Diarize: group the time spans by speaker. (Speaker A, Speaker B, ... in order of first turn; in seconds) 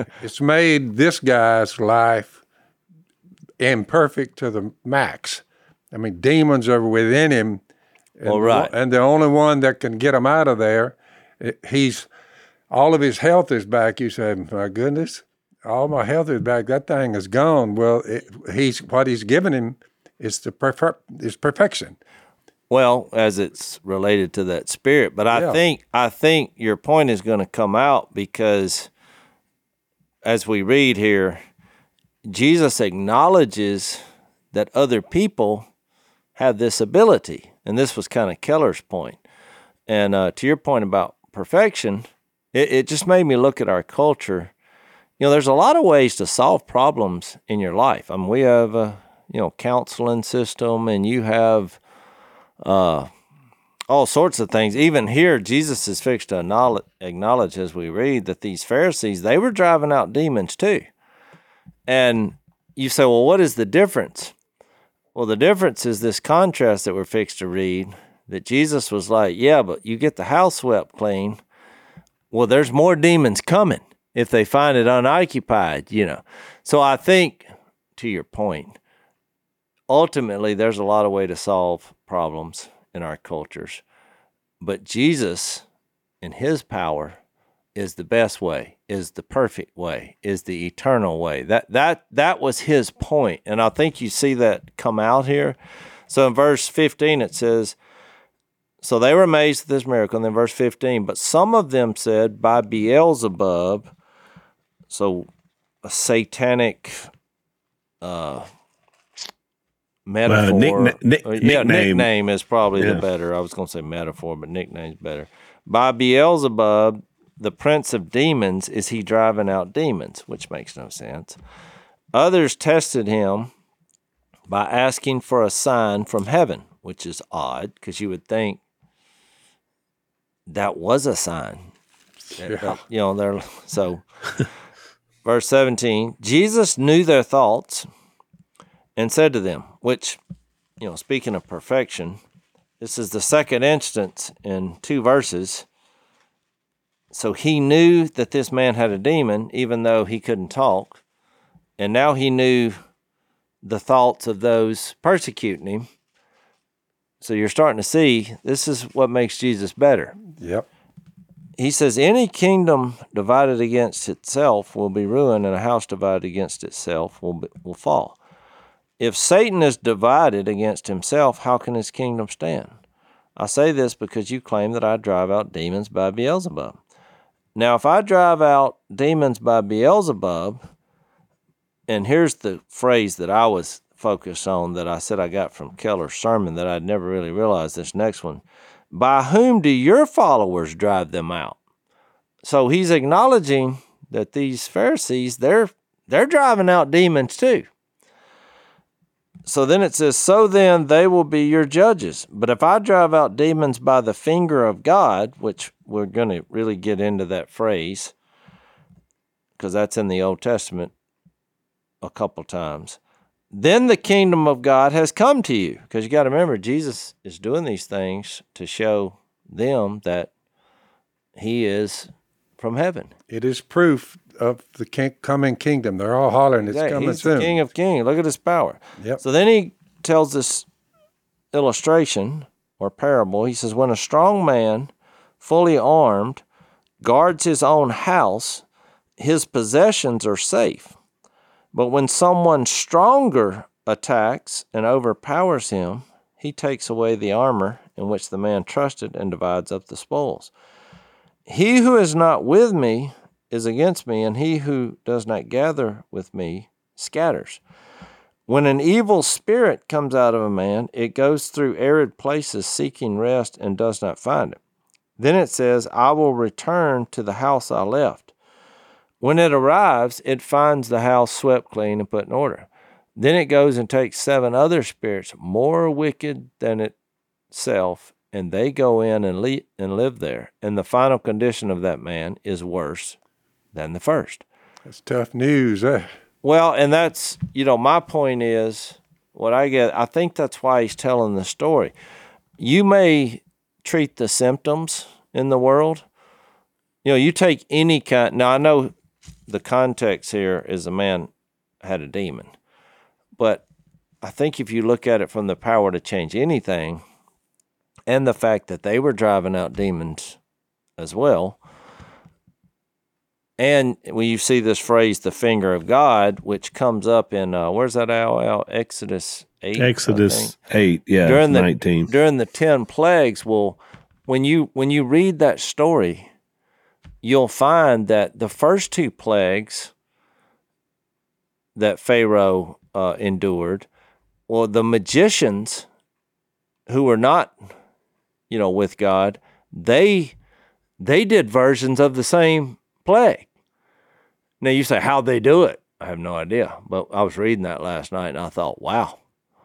Speaker A: 0.2-2.4, 3.6-7.6, 8.2-12.1, 12.7-21.9, 25.3-25.6, 132.3-132.8, 160.4-160.7, 223.3-227.6, 284.9-286.1
Speaker B: 8.2-8.7, 22.7-28.9, 30.2-31.4, 32.2-35.6, 36.4-39.2, 39.9-44.5, 45.2-51.8, 52.6-53.1, 53.9-60.9, 61.9-64.3, 65.1-71.4, 72.3-78.8, 79.9-83.8, 84.6-85.6, 86.2-87.2, 87.8-95.6, 96.1-97.8, 98.8-103.9, 104.9-105.3, 105.8-107.1, 108.0-108.5, 110.1-121.4, 122.1-123.5, 124.5-128.6, 130.5-131.7, 132.4-134.0, 135.2-137.9, 138.9-140.2, 140.8-142.2, 142.8-145.7, 147.1-151.0, 151.8-152.8, 153.6-155.9, 157.2-160.2, 161.6-168.2, 169.0-172.7, 173.4-176.8, 177.6-180.6, 181.9-191.6, 192.4-197.7, 199.4-208.1, 209.6-210.9, 212.0-213.0, 213.5-220.3, 221.4-223.1, 226.6-230.7, 231.5-236.4, 237.0-238.6, 239.2-240.9, 241.7-250.5, 251.5-257.6, 258.5-264.6, 265.2-268.3, 269.2-276.9, 277.5-283.2, 283.7-284.4, 286.4-291.9, 292.6-296.0, 297.0-298.9, 299.5-301.3, 301.8-302.5, 303.4-303.6, 304.2-307.0, 308.1-310.4, 311.0-311.6, 313.6-320.6, 321.2-326.3, 327.2-329.9, 331.8-333.9, 334.5-335.9, 336.9-337.6, 338.5-340.4, 341.0-343.5, 344.6-349.2
Speaker C: 110.3-112.1, 319.8-322.1